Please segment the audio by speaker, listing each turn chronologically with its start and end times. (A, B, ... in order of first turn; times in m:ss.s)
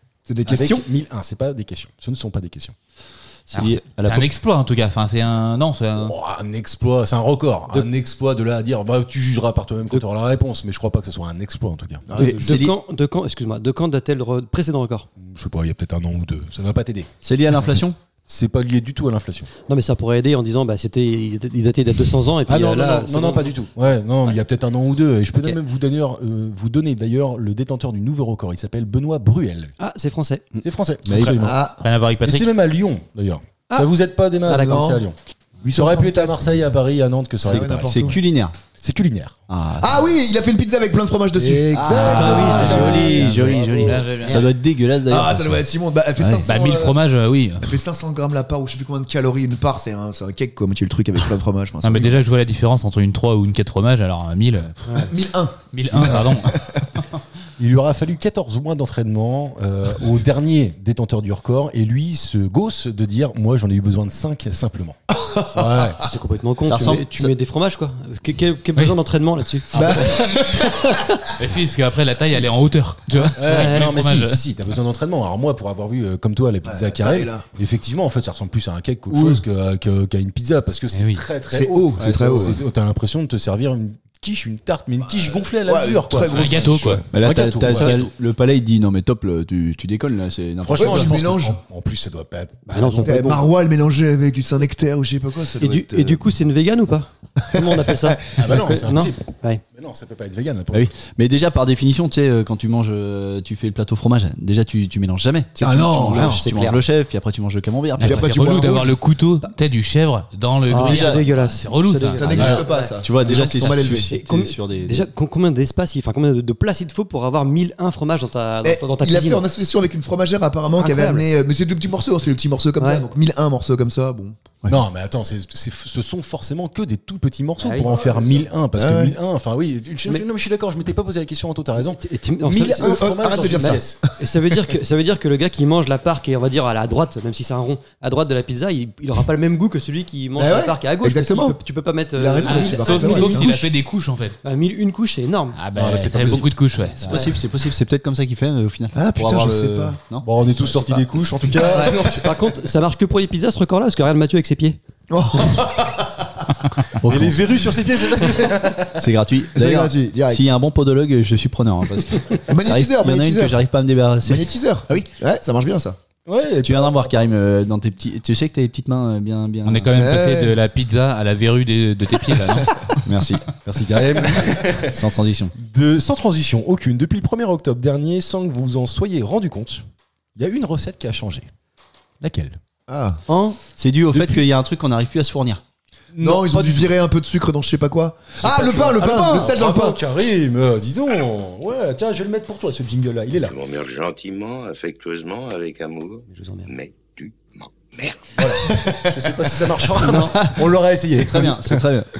0:00.3-0:00.9 A
0:00.5-0:02.8 B
0:03.5-0:04.3 C
0:03.5-0:06.2 D
0:06.0-0:12.5 B
0:12.1-0:12.4 A
0:12.2-0:12.8 C
0:12.2-0:15.1 E
0:15.2-0:17.1 B
0:17.2-0:18.0 C
0:18.3-0:19.5 B
0:19.7-0:23.5 E
0:22.5-0:29.7 B
0:29.8-0:30.4 E
0:30.6-0:31.4 C
0:30.6-0:31.6 B
0:31.2-0:32.5 D
0:31.4-0:31.8 A
0:32.2-0:35.2 B
0:34.5-0:34.9 E
0:34.5-0:35.0 A
0:35.6-0:36.7 A
0:35.7-0:38.2 B
0:37.4-0:38.2 A
0:37.5-0:38.6 C
0:38.8-0:39.4 B
0:39.5-0:40.0 C
0:39.8-0:43.0 A
0:41.4-0:43.0 B
0:41.7-0:45.6 C
0:41.9-0:44.5 D
0:42.0-0:44.4 E
0:45.1-0:47.0 A
0:46.2-0:46.5 C
0:46.5-0:47.8 D
0:47.6-0:52.2 A
0:51.8-0:55.1 D
0:55.0-0:56.8 A
0:55.7-0:57.0 D
0:57.6-1:06.0 B
1:05.2-1:05.9 A
1:06.0-1:11.0 E
1:06.6-1:07.3 C
1:09.7-1:10.9 A
1:11.4-1:14.4 D
1:13.2-1:13.9 E
1:13.4-1:28.1 B
1:16.6-1:17.4 A
1:19.1-1:19.4 A
1:20.9-1:21.2 D
1:21.5-1:22.6 A
1:22.0-1:22.6 C
1:25.0-1:27.1 A
1:26.2-1:27.0 D
1:27.1-1:31.2 C
1:27.7-1:28.0 D
1:30.6-1:33.4 B
1:30.8-1:31.6 A
1:32.7-1:33.5 E
1:33.0-1:36.2 A
1:35.6-1:39.6 E
1:37.5-1:37.9 A
1:38.4-1:40.9 B
1:40.7-1:48.9 C
1:45.6-1:46.4 A
1:46.1-1:46.4 B
1:46.2-1:46.8 E
1:48.0-1:52.2 D
1:48.0-1:49.0 A
1:50.7-1:59.5 E
1:50.7-1:51.3 C
1:52.2-1:54.1 A
1:52.3-1:55.1 C
1:52.4-1:52.7 B
1:58.6-2:04.4 A
2:00.8-2:01.3 E
2:02.8-2:03.0 E
2:04.7-2:14.0 B
2:07.6-2:07.9 E
2:07.8-2:09.2 A
2:11.8-2:13.1 E
2:12.6-2:14.3 A
2:13.6-2:23.6 E
2:20.4-2:21.6 A
2:22.1-2:23.7 A
2:22.5-2:24.4 D
2:24.4-2:25.6 E
2:25.6-2:27.2 D
2:25.8-2:26.5 B
2:27.0-2:31.0 C
2:27.1-2:27.3 E
2:29.0-2:30.0 A
2:30.2-2:32.4 B
2:31.6-2:34.8 E
2:35.1-2:36.4 A
2:37.0-2:37.8 C
2:37.1-2:39.1 B
2:39.0-2:45.1 C
2:39.5-2:40.4 A
2:42.5-2:43.6 A
2:44.2-2:46.0 A
2:46.2-2:47.2 B
2:46.6-2:49.9 C
2:49.6-2:53.0 D
2:49.9-2:50.6 A
2:53.0-2:53.5 C
2:53.6-2:59.8 B
2:54.9-2:55.5 C
3:00.4-3:01.5 B
3:02.2-3:02.6 B
3:02.9-3:03.2 A
3:03.3-3:03.6 E
3:03.8-3:05.6 C
3:04.1-3:04.4 B
3:06.1-3:07.0 B
3:06.2-3:10.0 A
3:08.4-3:13.6 B
3:13.5-3:18.4 F
3:16.3-3:16.7 E
3:18.4-3:21.9 B
3:18.6-3:19.5 A
3:20.0-3:20.4 E
3:20.4-3:22.1 C